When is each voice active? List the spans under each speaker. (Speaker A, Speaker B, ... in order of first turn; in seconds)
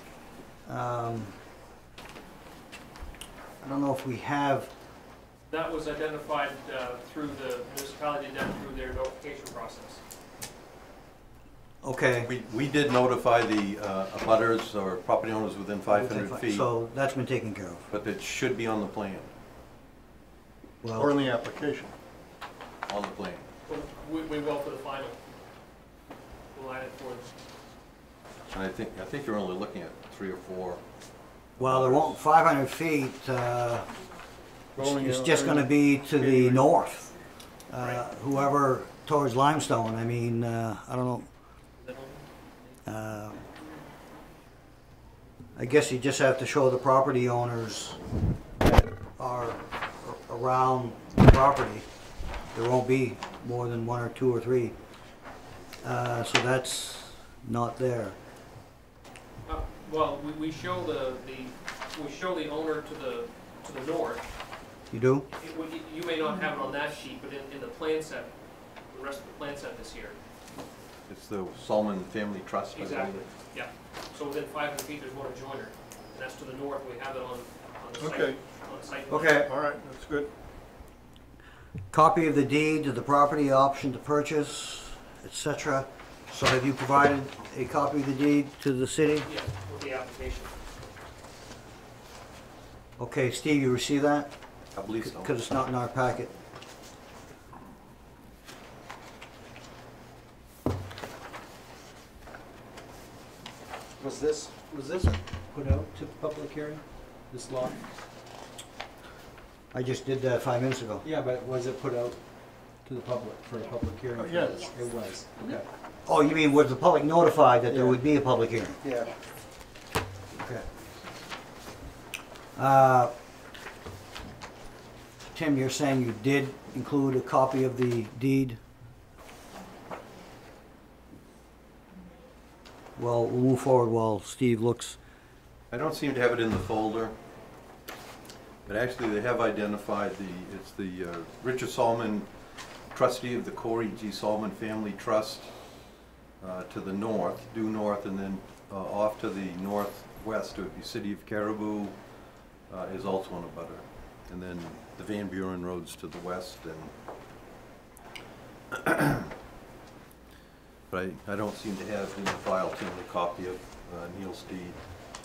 Speaker A: 0.7-1.4, 3.6-4.7, 11.8-12.3, 15.9-17.9, 20.8-21.1, 31.6-33.9, 34.8-37.1, 37.7-41.3, 42.9-43.4, 45.6-48.0, 48.6-51.9, 52.5-54.8, 55.8-58.2, 64.9-65.3, 79.1-79.5, 81.9-89.3, 93.0-94.3, 95.0-96.3, 109.7-111.0, 116.1-118.8, 120.4-120.7, 122.6-123.1, 125.3-128.6, 133.0-135.0
Speaker B: 5.5-10.0, 23.7-25.2, 26.5-27.3, 41.8-42.2, 59.5-64.2, 65.4-68.3, 68.9-70.2, 72.8-79.5, 89.2-90.5
Speaker C: 12.2-16.7, 17.9-19.3, 22.9-23.5, 28.5-30.8, 31.6-32.2, 71.1-73.3, 94.8-95.3, 135.7-137.2, 138.7-142.3, 142.9-145.5, 146.4-152.0, 152.7-156.9, 158.7-159.3, 160.9-164.8
Speaker D: 20.9-21.9, 34.8-36.7, 78.0-78.4, 79.5-80.3, 114.2-114.6
Speaker E: 104.0-107.8, 111.0-112.2, 112.8-115.6, 117.7-118.0, 118.8-119.1